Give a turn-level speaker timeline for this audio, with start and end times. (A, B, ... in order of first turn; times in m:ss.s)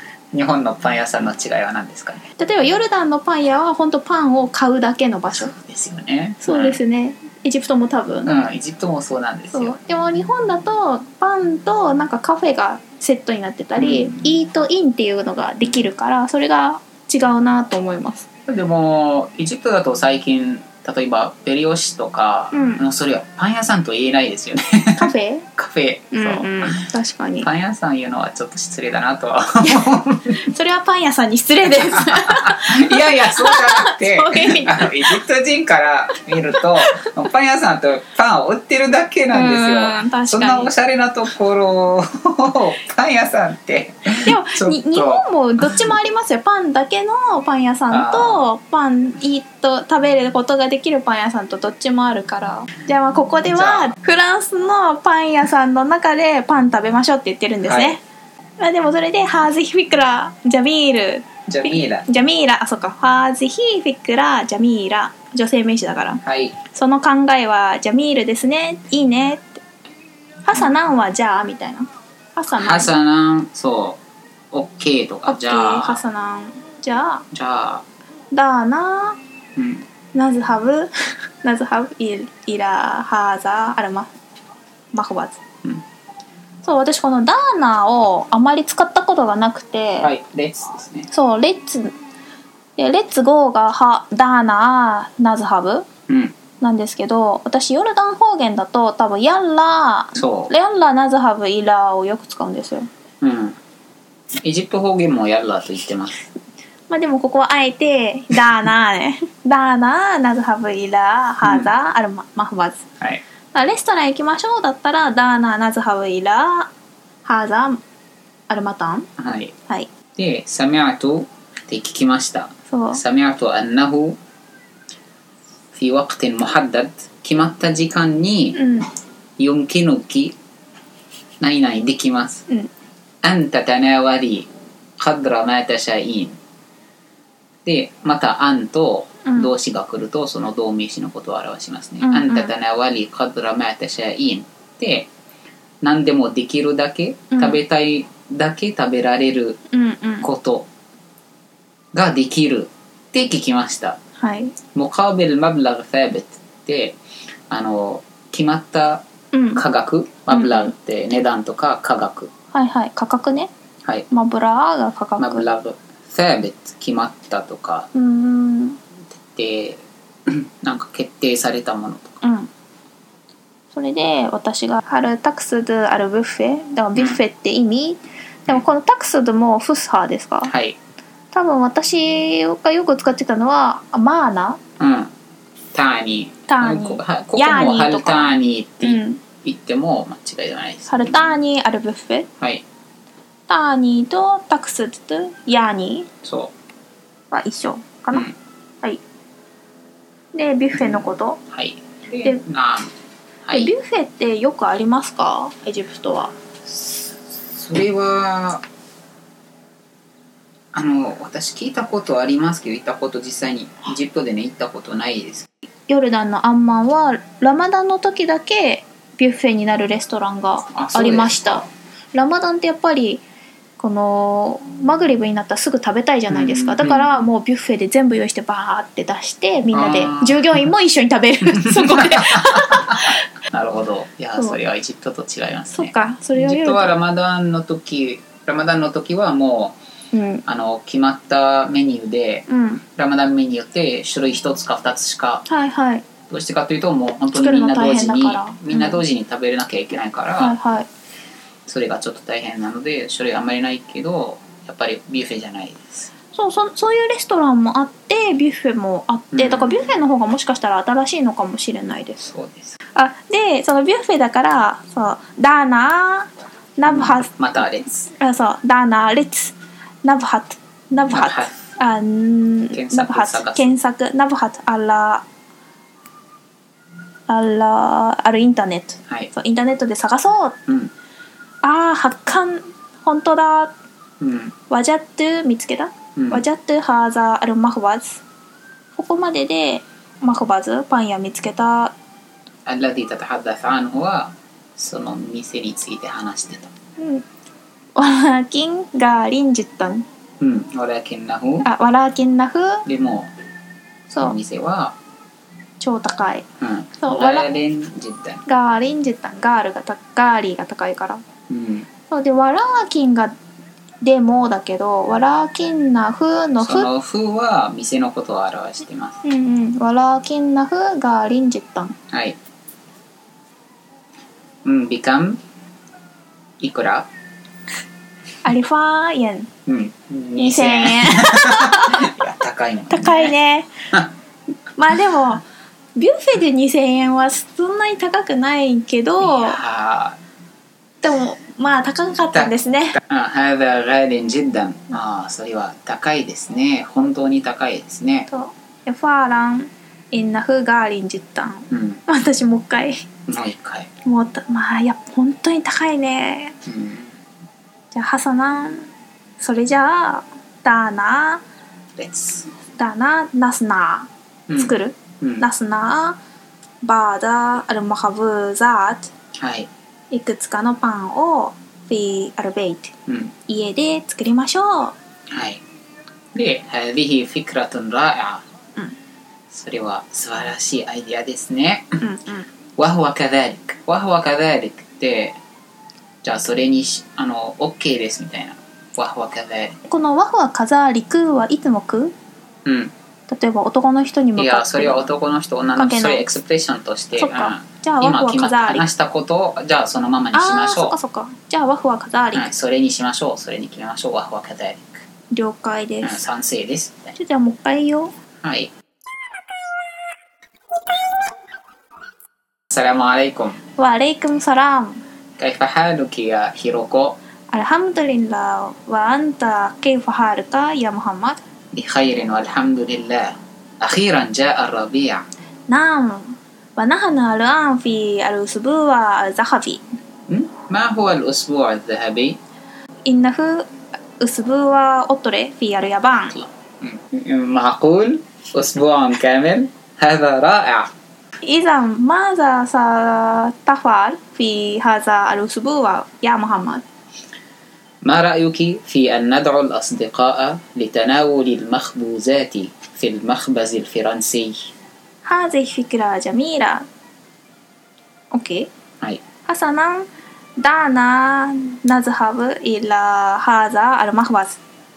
0:00.3-0:02.2 A
0:02.4-0:05.5 B
0:05.3-0:06.8 A
0:06.4-0:08.3 B
0:08.2-0:09.8 A
0:09.5-0:18.3 B
0:13.8-0:14.2 A
0:18.5-0:26.8 A
0:22.5-0:22.8 B
0:25.0-0:25.4 B
0:26.1-0:27.5 B
0:27.4-0:30.5 A
0:29.6-0:35.2 B
0:31.6-0:45.9 A
0:39.3-0:40.7 B
0:44.2-0:58.0 B
0:47.9-0:48.4 A
0:53.5-0:53.9 A
0:57.6-0:58.0 A
0:58.6-1:06.2 B
1:01.5-1:02.0 A
1:06.2-1:06.6 A
1:06.7-1:09.6 B
1:10.4-1:12.9 B
1:12.6-1:14.0 A
1:14.5-1:16.0 A
1:15.3-1:17.2 B
1:17.3-1:17.8 A
1:18.3-1:19.2 B
1:19.6-1:19.8 A
1:20.1-1:20.9 B
1:21.4-1:24.1 B
1:24.9-1:25.4 B
1:26.6-1:30.1 B
1:30.0-1:31.1 A
1:31.1-1:31.9 B
1:32.8-1:35.9 B
1:36.1-1:36.3 A
1:36.6-1:42.9 B
1:40.1-1:40.5 A
1:43.2-1:43.6 A
1:44.4-1:46.3 A
1:46.9-1:52.8 B
1:51.4-1:51.7 A
1:53.5-1:56.7 B
1:57.2-1:57.8 B
1:58.5-1:59.1 B
1:59.2-1:59.5 A
2:00.2-2:04.2 A
2:02.7-2:03.0 B
2:05.7-2:08.6 A
2:08.5-2:08.9 B
2:09.4-2:10.4 A
2:11.4-2:12.4 A
2:13.2-2:16.4 A
2:17.6-2:25.1 A
2:22.0-2:22.5 B
2:25.8-2:29.6 A
2:27.3-2:27.6 B
2:29.7-2:30.3 B
2:30.2-2:30.7 A
2:31.9-2:34.0 A
2:34.2-2:34.5 B
2:34.7-2:37.0 A
2:37.5-2:39.0 A
2:39.3-2:39.6 B
2:39.5-2:42.3 A
2:40.3-2:40.7 B
2:42.5-2:43.5 B
2:44.1-2:45.4 B
2:45.2-2:47.9 A
2:47.9-2:48.8 B
2:49.2-2:52.2 A
2:52.2-2:52.5 B
2:53.7-3:00.5 B
2:56.9-2:57.2 A
3:00.4-3:00.8 A
3:01.3-3:04.6 B
3:04.8-3:05.1 A
3:05.7-3:11.4 A
3:06.5-3:09.2 B
3:10.9-3:12.3 B
3:13.5-3:16.1 B
3:16.2-3:16.5 A
3:17.3-3:18.3 B
3:20.3-3:21.4 B
3:20.7-3:22.9 A
3:23.4-3:23.7 A
3:23.5-3:26.3 B
3:26.6-3:28.6 A
3:30.7-3:35.5 A
3:35.9-3:43.2 B
3:40.7-3:41.7 A
3:43.8-3:53.2 B
3:46.3-3:47.1 A
3:49.7-3:50.7 A
3:51.6-3:59.8 A
3:55.7-3:56.9 B
4:00.1-4:00.4 B
4:00.4-4:05.4 A
4:02.5-4:02.8 B
4:05.5-4:06.0 B
4:06.3-4:10.5 A
4:07.3-4:09.0 B
4:10.4-4:10.9 B
4:11.6-4:16.1 A
4:16.3-4:22.3 B
4:19.3-4:19.9 A
4:22.2-4:22.8 A
4:23.0-4:27.3 B
4:26.8-4:28.1 A
4:28.1-4:35.2 B
4:31.1-4:31.6 A
4:32.7-4:33.7 A
4:37.3-4:40.6 B
4:41.6-4:43.7 B
4:44.2-4:44.5 A
4:44.7-4:48.2 B
4:46.2-4:46.4 A
4:48.9-4:51.9 B
4:52.6-4:56.7 A
4:57.0-4:57.2 B
4:58.0-5:00.0 B
5:00.4-5:01.7 A
5:01.6-5:02.8 B
5:02.8-5:03.3 A
5:04.1-5:04.4 B
5:04.2-5:04.9 A
5:05.8-5:06.4 B
5:06.6-5:08.4 A
5:07.0-5:07.5 B
5:08.5-5:11.2 B
5:11.5-5:11.9 A
5:12.1-5:13.3 B
5:14.0-5:16.9 B
5:16.6-5:19.2 A
5:19.2-5:22.0 B
5:22.1-5:22.4 A
5:24.6-5:25.4 A
5:26.6-5:27.1 A
5:28.4-5:29.5 B
5:29.6-5:33.3 A
5:30.4-5:32.2 B
5:32.9-5:33.7 B
5:34.8-5:35.4 B
5:36.0-5:39.6 B
5:39.2-5:40.2 A
5:41.0-5:43.0 B
5:42.3-5:48.3 A
5:48.3-5:53.0 B
5:51.7-5:52.0 A
5:53.3-5:53.9 A
5:54.0-5:56.5 B
5:56.6-5:57.1 A
5:57.9-5:58.9 B
5:59.4-6:01.4 B
6:02.0-6:02.5 A
6:02.8-6:06.2 B
6:04.5-6:05.4 A
6:06.8-6:09.1 B
6:09.4-6:09.7 A
6:10.1-6:12.9 B
6:13.1-6:13.3 A
6:13.5-6:14.9 B
6:15.3-6:15.6 A
6:16.3-6:18.4 A
6:19.5-6:22.0 A
6:22.0-6:22.4 B
6:22.8-6:25.4 A
6:26.2-6:29.8 A
6:29.9-6:32.1 B
6:32.6-6:32.9 A
6:33.3-6:35.1 B
6:34.4-6:40.9 A
6:35.7-6:36.3 B
6:37.2-6:38.8 B
6:40.3-6:42.5 B
6:42.3-6:45.0 A
6:45.3-6:46.2 B
6:46.0-6:47.2 A
6:47.2-6:48.1 B
6:48.4-6:48.7 A
6:52.7-6:53.6 A
6:53.8-6:55.0 B
6:55.4-6:57.2 A
6:57.5-7:01.4 B
7:01.7-7:05.2 A
7:05.7-7:09.8 B
7:10.3-7:12.4 A
7:13.0-7:13.6 B
7:14.2-7:16.4 B
7:16.3-7:20.9 A
7:21.4-7:26.8 B
7:28.0-7:34.7 A
7:35.2-7:36.8 B
7:38.3-7:38.7 B
7:39.5-7:40.0 B
7:40.6-7:44.6 B